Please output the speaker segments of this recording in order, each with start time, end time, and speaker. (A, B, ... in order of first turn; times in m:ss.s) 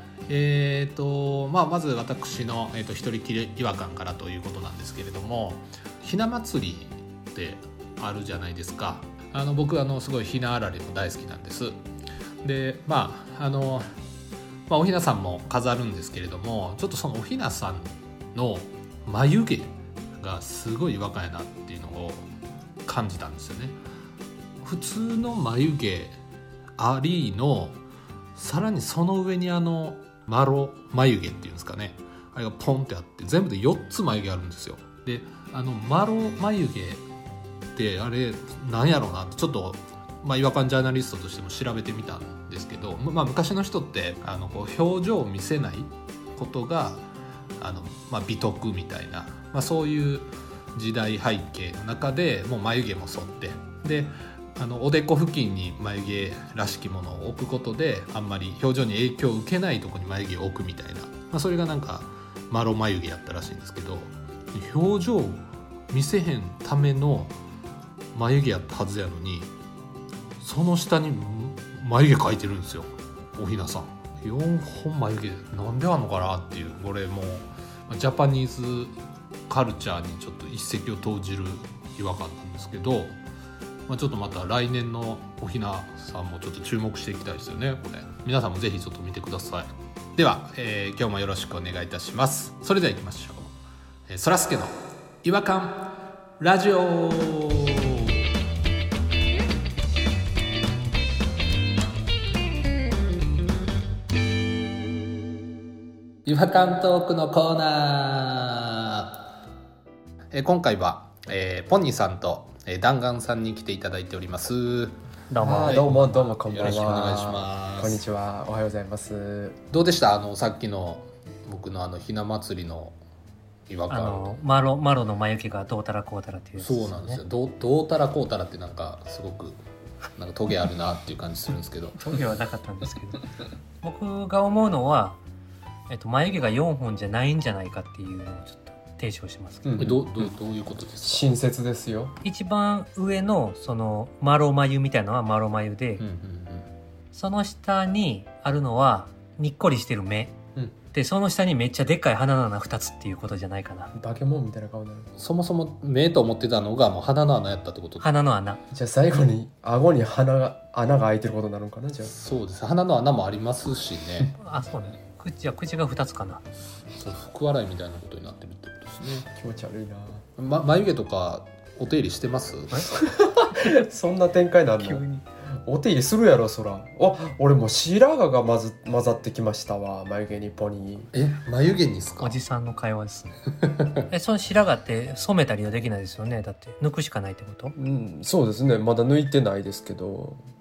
0:00.3-0:11.8 A
0:12.4-0:13.9 A
0:14.7-0:22.3 A
0:22.9-0:23.8 A
0:24.6-0:26.2 A
0:26.8-0:27.8 A
0:28.4-0:37.0 A
0:37.8-0:47.1 A
0:47.6-1:07.4 A
1:08.1-1:09.5 A
1:10.4-1:19.0 A
1:19.5-1:23.2 A
1:23.9-1:33.5 A
1:34.1-1:38.1 A
1:46.2-1:49.2 A
1:50.3-1:58.0 A
1:55.3-1:56.2 B
1:55.4-1:59.6 C
1:59.7-2:03.0 A
2:03.7-2:04.4 A
2:03.9-2:07.2 B
2:06.6-2:09.6 A
2:10.2-2:12.1 A
2:12.0-2:13.3 B
2:13.8-2:15.2 B
2:15.9-2:19.7 B
2:19.6-2:20.3 C
2:19.8-2:21.3 A
2:21.0-2:22.2 C
2:22.2-2:26.0 B
2:26.0-2:26.7 A
2:27.1-2:30.4 B
2:30.9-2:33.9 B
2:34.0-2:35.1 C
2:35.2-2:38.1 A
2:38.0-2:38.6 B
2:38.7-2:42.1 C
2:42.0-2:44.4 A
2:44.4-2:46.4 B
2:46.9-2:49.3 A
2:49.4-2:50.2 C
2:50.4-2:52.9 A
2:52.9-2:55.0 C
2:54.8-2:55.2 B
2:55.7-3:01.1 C
3:01.1-3:02.4 A
3:02.2-3:03.4 B
3:04.1-3:07.8 B
3:07.8-3:10.4 C